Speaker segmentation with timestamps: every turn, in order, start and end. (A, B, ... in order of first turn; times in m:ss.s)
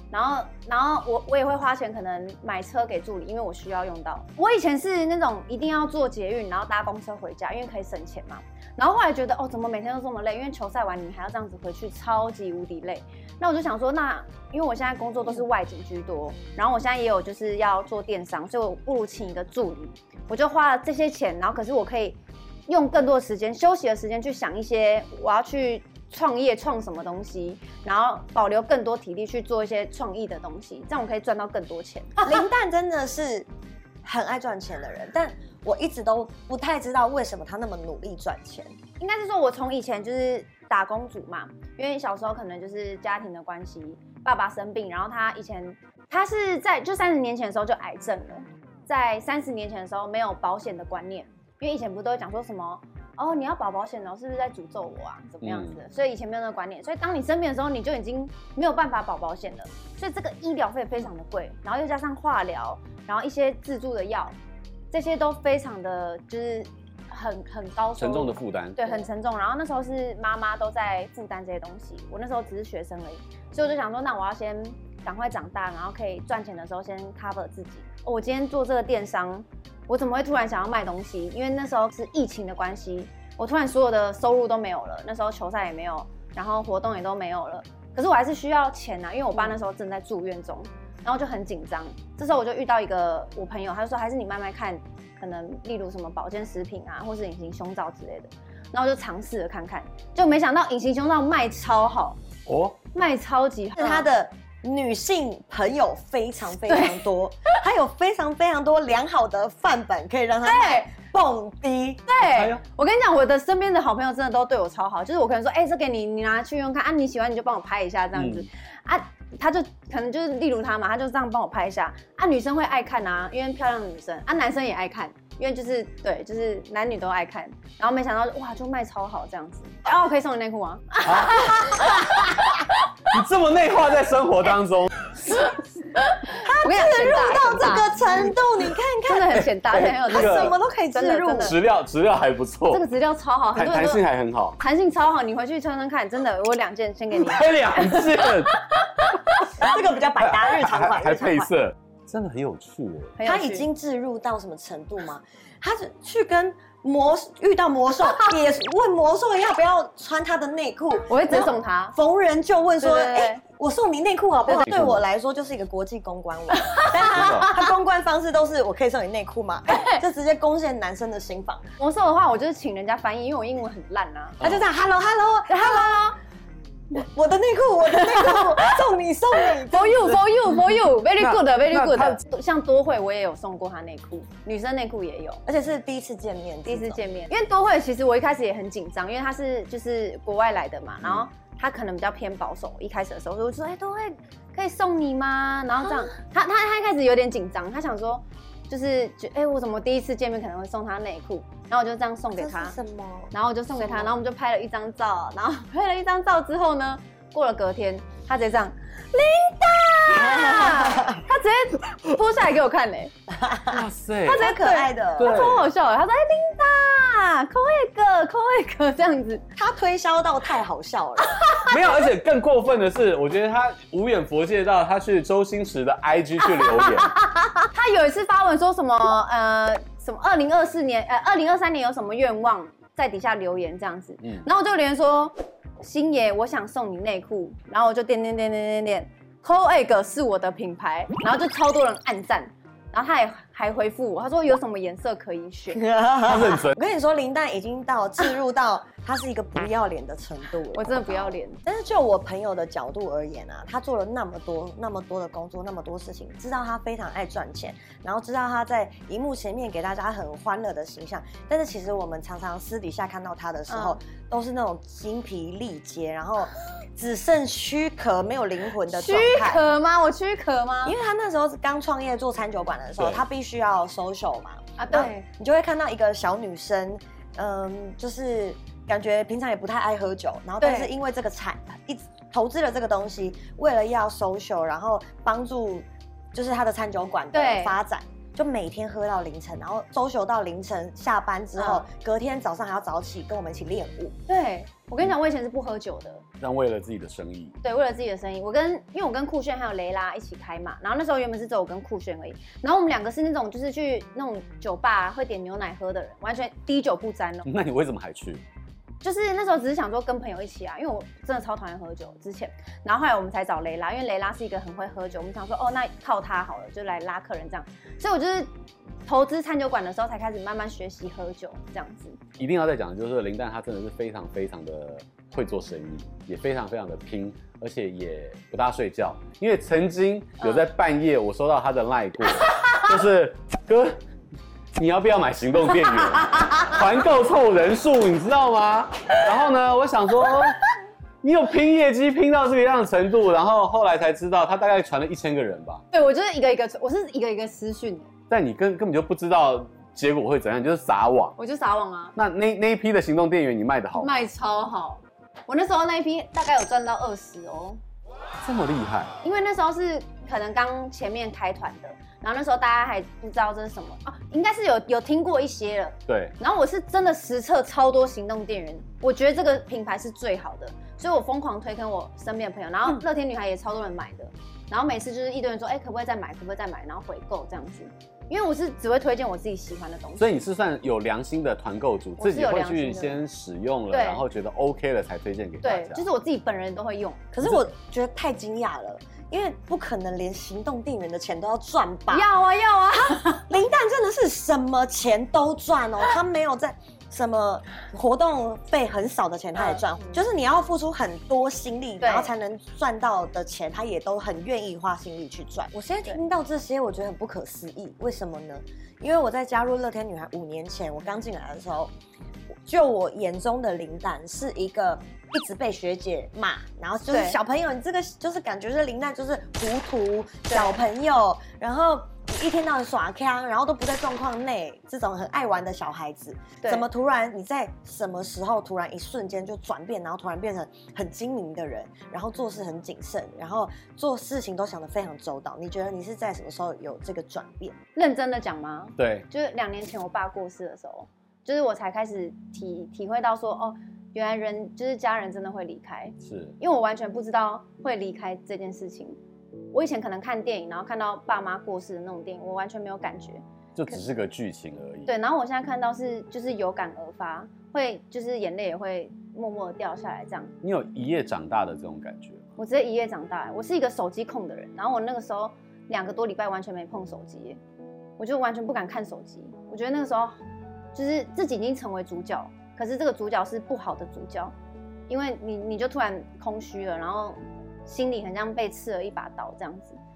0:00.1-0:32.3 A
0:32.2-0:33.5 B
0:34.0-0:38.8 B
0:39.0-1:04.4 A
0:55.4-0:55.8 C
1:04.9-1:42.2 A
1:08.0-1:09.0 C
1:42.5-1:42.8 C
1:42.9-1:44.1 A
1:43.8-1:52.0 B
1:46.7-1:47.0 A
1:50.4-1:50.9 A
1:52.1-2:12.9 A
1:52.2-1:52.6 C
1:58.2-1:58.4 C
2:11.0-2:12.1 C
2:13.1-2:15.2 C
2:15.3-2:18.0 A
2:16.4-2:21.6 B
2:19.0-2:21.6 A
2:19.7-2:20.6 C
2:21.4-2:22.8 C
2:22.7-2:24.0 A
2:23.6-2:24.6 C
2:24.6-2:29.7 A
2:27.2-2:28.6 C
2:29.6-2:31.5 B
2:30.2-2:33.2 C
2:33.2-2:33.7 A
2:33.2-2:51.7 B
2:41.1-2:42.0 A
2:42.8-2:43.4 A
2:44.6-2:45.0 C
2:46.6-2:47.6 A
2:47.1-2:47.5 C
2:49.7-2:50.0 A
2:51.8-2:54.4 A
2:54.4-2:56.1 B
2:55.5-2:56.2 A
2:56.9-3:00.2 B
2:58.1-2:58.6 A
2:59.6-3:05.4 A
3:01.2-3:02.2 C
3:05.5-3:07.0 B
3:06.7-3:22.8 A
3:11.0-3:11.3 C
3:22.4-3:24.1 B
3:23.3-3:33.1 A
3:30.1-3:31.2 B
3:33.3-3:35.4 B
3:33.7-3:34.5 C
3:34.3-3:39.4 A
3:35.2-3:35.7 C
3:39.6-3:41.4 B
3:41.3-3:41.7 A
3:41.6-3:47.1 C
3:46.4-4:05.8 A
3:54.2-3:54.5 C
4:05.7-4:29.6 B
4:06.3-4:06.7 C
4:10.7-4:11.6 A
4:23.7-4:24.0 A
4:28.9-4:31.0 A
4:30.8-4:54.2 B
4:34.8-4:35.3 A
4:40.6-4:40.9 A
4:47.3-4:47.8 A
4:51.6-4:51.9 A
4:54.3-4:56.2 A
4:56.4-4:57.6 C
4:57.6-5:07.5 A
5:07.5-5:08.4 C
5:09.0-5:18.5 A
5:19.1-5:22.2 A
5:22.4-5:34.0 C
5:30.4-5:30.7 A
5:34.8-5:40.6 C
5:41.2-5:45.8 C
5:45.9-5:48.1 A
5:48.3-5:51.4 C
5:51.4-5:52.2 A
5:52.2-5:54.2 C
5:54.0-5:57.8 A
5:58.4-5:59.2 C
5:59.2-6:20.3 A
6:06.1-6:06.4 C
6:20.2-6:26.1 C
6:22.2-6:23.2 A
6:23.9-6:24.2 A
6:25.6-6:27.3 A
6:27.3-6:32.3 B
6:32.1-6:33.5 A
6:33.3-6:51.9 B
6:39.6-6:39.8 A
6:42.0-6:42.3 A
6:52.6-7:17.8 B
6:57.1-6:57.4 A
7:00.5-7:00.8 A
7:18.0-7:29.2 A
7:19.0-7:19.3 C
7:26.2-7:26.6 C
7:29.7-7:33.4 A
7:33.8-7:35.1 C
7:35.1-7:40.5 A
7:40.6-7:42.4 C
7:42.6-7:47.6 A
7:48.2-7:50.4 A
7:50.9-7:54.5 A
7:55.1-8:00.0 A